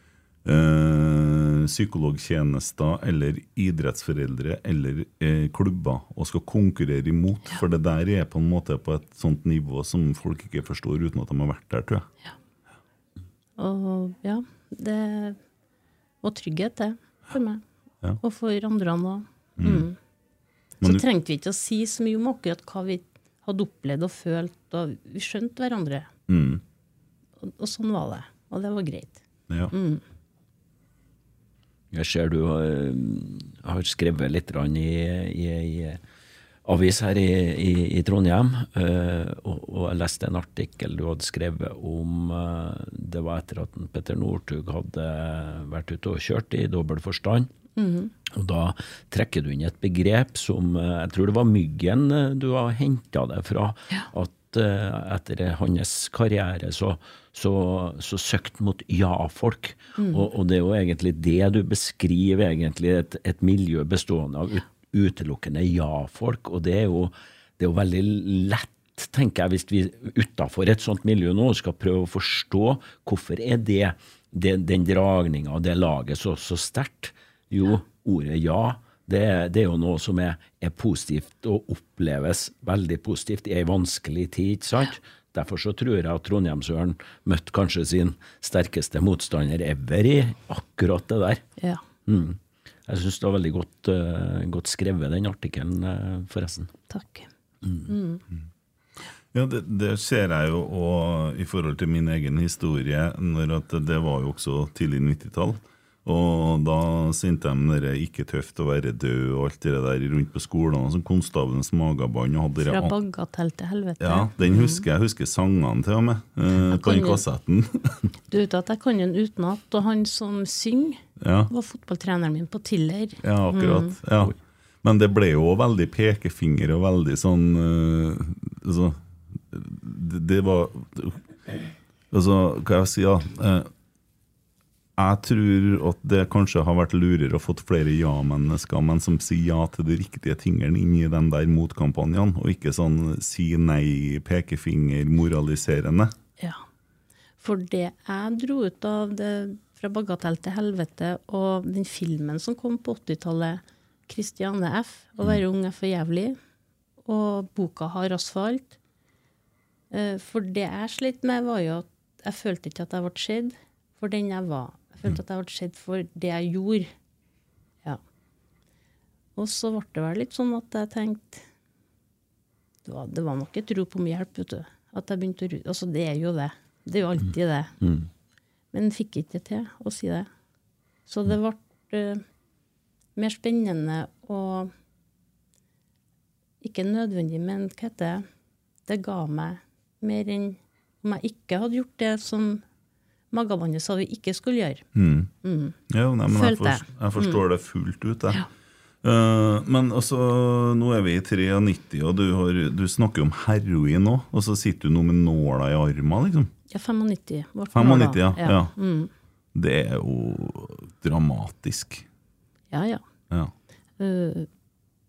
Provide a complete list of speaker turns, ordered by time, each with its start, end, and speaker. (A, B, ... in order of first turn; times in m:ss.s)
0:00.4-0:12.1 A
0:13.6-0:15.4 B
0:16.2-0:17.6 B
0:18.2-0:20.0 B
0:19.6-0:19.9 A
0:20.8-0:26.1 B
0:26.3-0:26.6 A
0:27.4-0:30.0 B
0:31.9-0:36.0 C
0:36.6-0:47.5 C
0:47.8-0:48.1 B
0:48.3-1:31.4 C
1:00.0-1:00.2 B
1:32.1-1:36.7 C
1:36.9-1:37.3 B
1:37.9-1:38.2 B
1:39.3-1:53.0 A
1:52.6-1:54.8 B
1:54.0-1:58.1 A
1:56.7-1:57.2 B
1:58.3-2:04.0 B
2:01.2-2:01.5 A
2:03.2-2:11.2 A
2:12.1-2:13.7 A
2:15.0-2:26.1 A
2:27.4-2:36.4 B
2:37.0-2:38.8 B
2:39.9-2:46.9 B
2:49.4-2:51.5 B
2:52.9-2:57.8 B
2:57.8-2:58.1 C
2:58.7-3:00.3 B
3:01.1-3:02.2 B
3:03.2-3:04.7 B
3:06.6-3:08.3 B
3:08.9-3:12.6 B
3:13.3-3:14.9 B
3:14.9-3:15.3 A
3:15.4-3:15.8 B
3:15.9-3:18.4 A
3:16.3-3:17.4 B
3:19.0-3:26.5 A
3:26.7-3:29.1 B
3:27.7-3:28.7 A
3:29.5-3:32.1 A
3:32.7-3:33.0 B
3:34.0-3:34.5 B